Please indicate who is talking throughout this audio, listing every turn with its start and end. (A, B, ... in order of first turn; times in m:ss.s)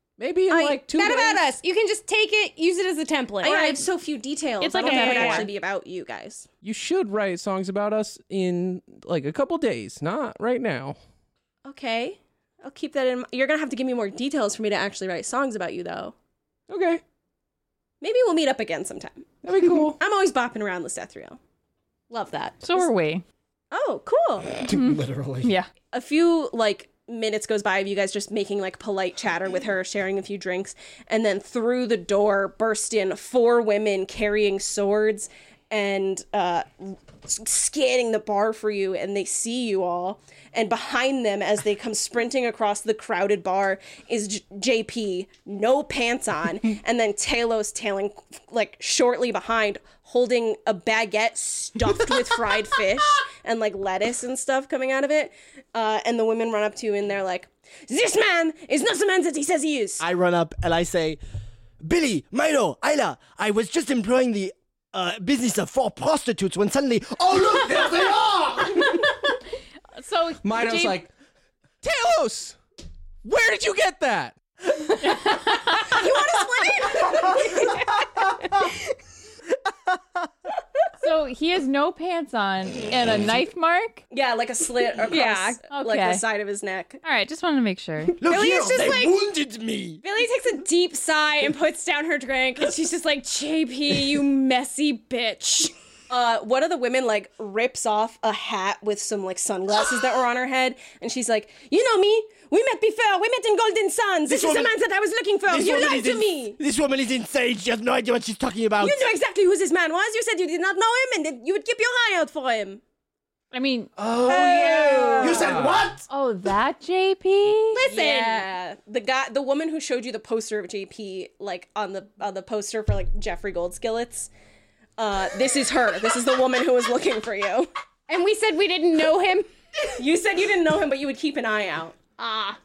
0:00.2-0:01.5 A
0:00.5-0:01.2 B
0:00.9-0:03.8 C
0:03.4-0:06.5 B
0:04.6-0:05.5 C
0:04.8-0:05.5 D
0:05.0-0:05.3 A
0:06.6-0:11.0 A
0:11.6-0:16.2 B
0:16.7-0:17.0 A
0:18.0-0:19.2 B
0:19.4-0:20.0 A
0:20.0-0:21.4 B
0:22.1-0:22.8 C
0:22.6-0:23.2 D
0:23.7-0:24.5 B
0:24.6-0:25.5 E
0:24.7-0:25.7 D
0:25.9-1:00.0 B
1:00.0-1:01.2 E
1:01.8-1:08.9 E
1:10.0-1:11.0 D
1:10.4-1:11.1 A
1:11.8-1:12.6 A
1:13.2-1:15.0 A
1:15.6-1:17.8 B
1:17.2-1:17.7 C
1:21.0-1:24.0 D
1:24.1-1:27.0 B
1:25.1-1:25.6 C
1:25.7-1:26.2 D
1:27.0-1:28.2 D
1:28.1-1:29.2 C
1:28.2-1:30.0 E
1:30.0-1:35.7 C
1:36.1-1:46.6 B
1:44.3-1:44.7 E
1:45.5-1:49.1 E
1:48.8-1:52.8 B
1:53.5-1:53.9 D
1:54.0-1:55.9 A
1:54.2-1:56.1 E
1:54.2-1:55.6 B
1:56.1-1:57.8 D
1:57.7-1:58.4 C
1:57.9-2:04.3 B
2:05.0-2:07.7 B
2:08.1-2:09.9 C
2:10.0-2:12.1 B
2:12.2-2:12.6 C